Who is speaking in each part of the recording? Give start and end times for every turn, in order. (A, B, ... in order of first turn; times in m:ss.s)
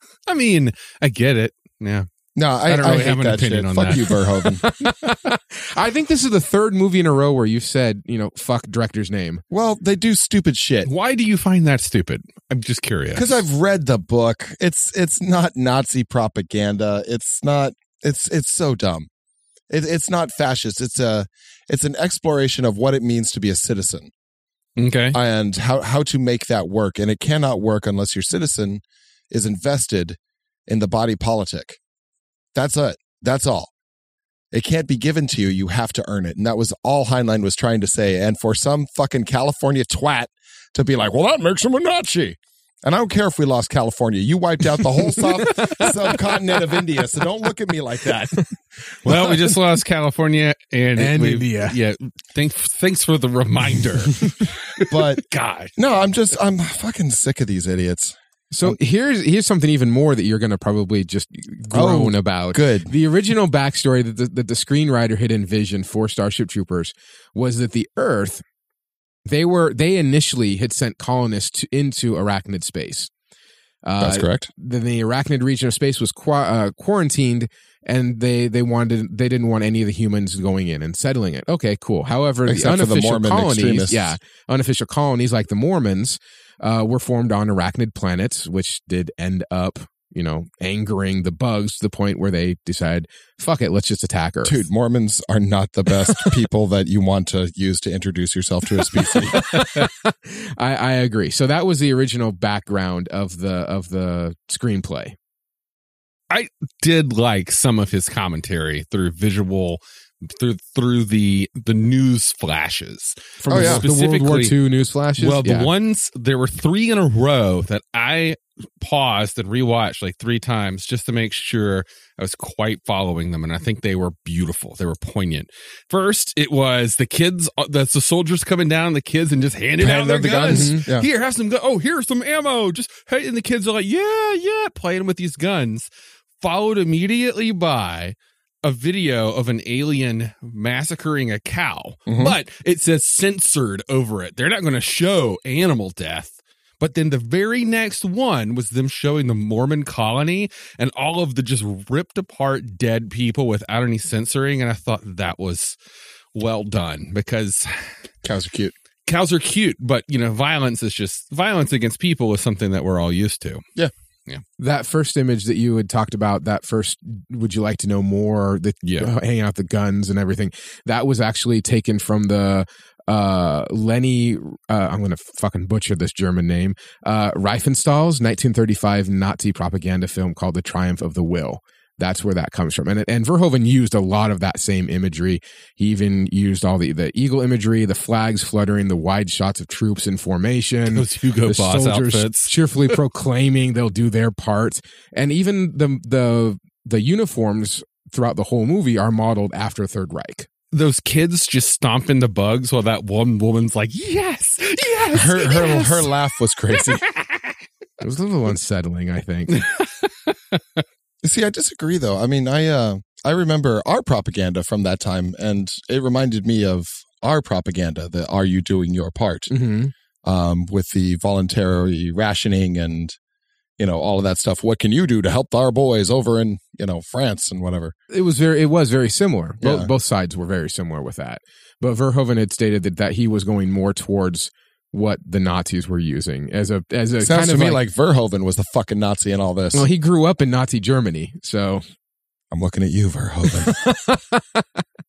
0:00.3-0:02.1 A
0:02.3-0:04.6 B
0:02.6-0:04.1 A
0:04.6-0:09.4 C
0:09.5-0:10.9 B
0:10.8-0:13.4 A
0:13.1-0:19.1 B
0:19.7-0:24.1 B
0:24.8-0:25.2 A
0:25.1-0:31.8 B
0:32.5-0:33.7 B
0:34.5-0:49.5 B
0:45.1-0:45.9 C
0:49.0-0:55.7 A
0:51.0-0:51.8 C
0:54.9-0:55.2 B
0:55.8-0:58.8 B
0:58.5-1:08.4 C
1:01.7-1:02.9 B
1:09.2-1:13.1 C
1:13.8-1:34.6 C
1:14.0-1:14.5 B
1:22.4-1:24.2 B
1:34.4-1:39.4 B
1:39.1-1:45.2 C
1:46.3-1:54.6 A
1:53.4-1:55.7 C
1:53.5-1:53.8 B
1:55.2-2:15.9 A
2:09.8-2:11.1 B
2:10.5-2:10.8 C
2:16.4-2:35.8 A
2:22.1-2:22.4 B
2:36.3-2:37.7 A
2:38.2-2:38.7 B
2:39.1-2:43.6 A
2:44.6-3:20.5 C
2:48.8-2:49.1 A
3:10.9-3:12.5 A
3:20.7-3:26.1 A
3:25.1-3:27.0 B
3:26.9-3:27.1 A
3:28.0-3:29.7 C
3:29.5-3:30.6 A
3:31.2-3:39.5 B
3:39.5-3:39.9 C
3:40.2-3:43.2 B
3:43.8-3:47.9 B
3:48.1-3:57.8 C
3:49.6-3:49.9 B
3:57.2-3:59.9 B
3:59.7-4:01.8 C
4:02.5-4:03.8 B
4:03.5-4:04.8 C